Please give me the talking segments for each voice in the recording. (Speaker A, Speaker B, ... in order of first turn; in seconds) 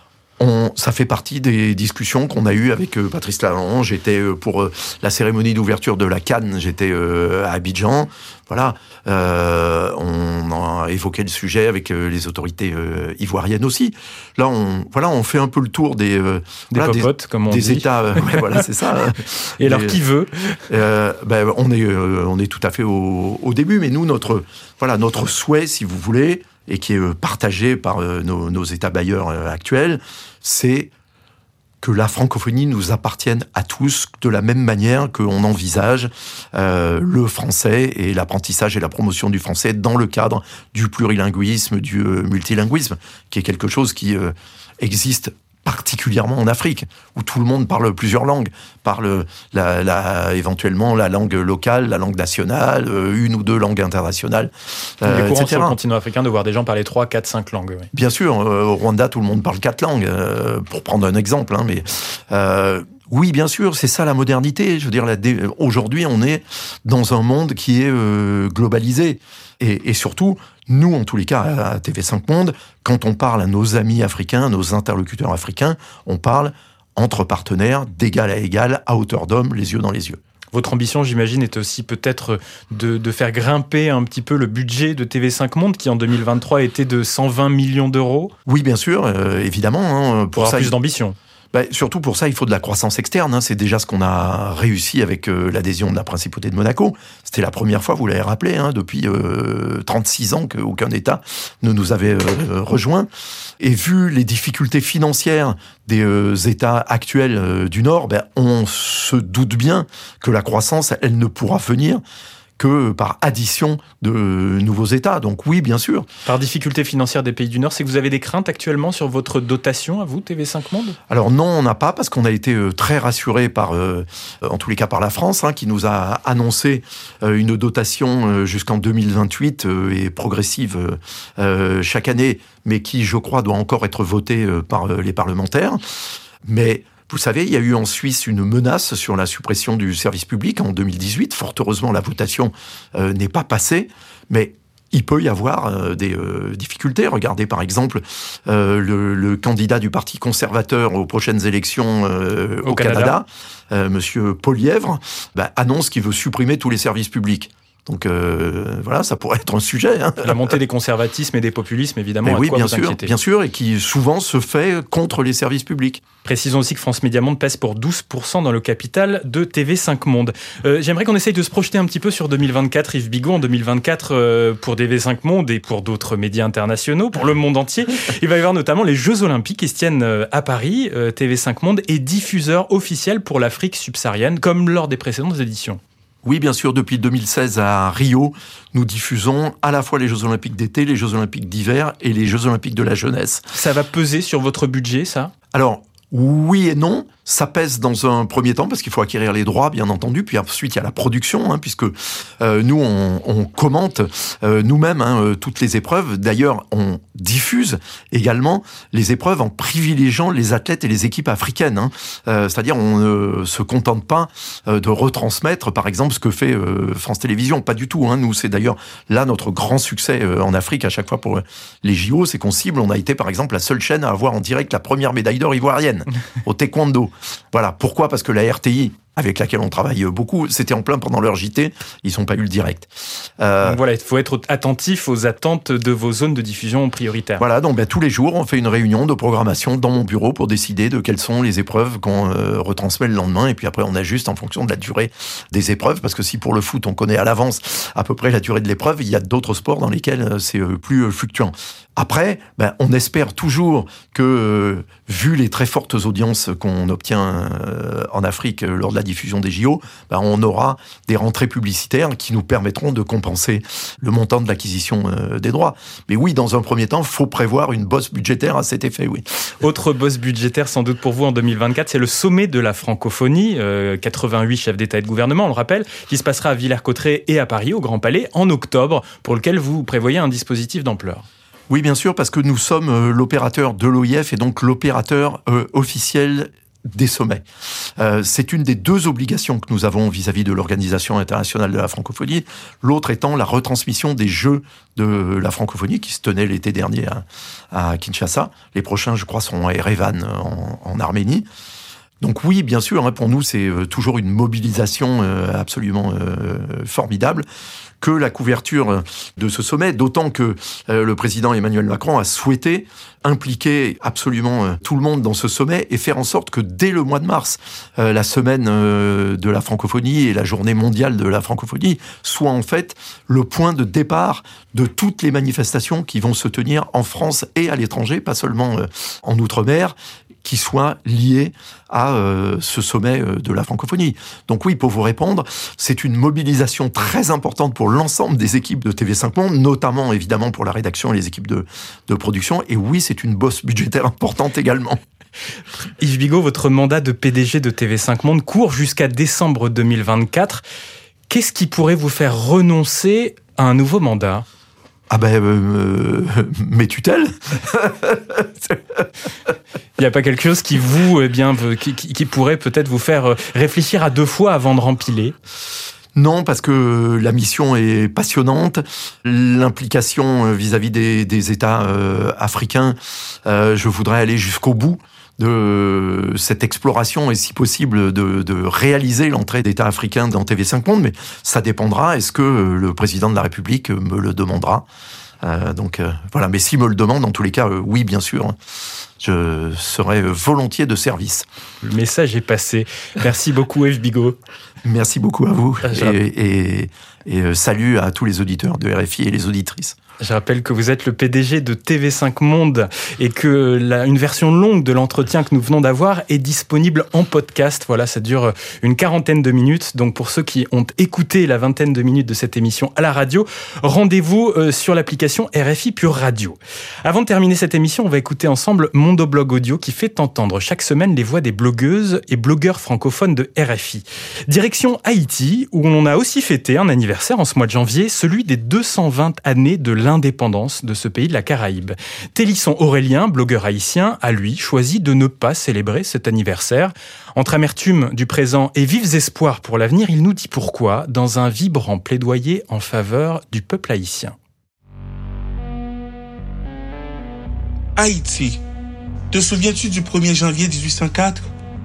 Speaker A: 0.4-20.0, 20.7-30.9, 31.8-55.8, 57.9-80.2, 88.5-90.8, 91.5-103.1, 103.6-112.0, 112.6-116.1, 121.1-135.8, 136.4-160.5, 162.2-166.0, 186.2-193.5, 195.5-233.8, 237.4-269.2, 281.7-287.4, 288.0-301.5, 302.2-307.5, 308.0-345.0, 355.1-359.1, 366.1-384.9, 385.4-388.6, 389.2-391.5, 394.8-400.0
Speaker B: 16.7-18.6, 19.6-20.6, 55.0-57.9, 80.5-88.3, 90.3-91.2, 116.3-121.0, 152.6-153.2, 160.2-163.1, 166.2-185.8, 193.5-195.3, 233.6-237.4, 269.6-281.3, 346.0-350.6, 351.3-354.5, 360.0-365.4, 391.8-394.4, 395.9-396.2, 400.2-444.4
Speaker C: 448.0-448.6, 449.3-451.4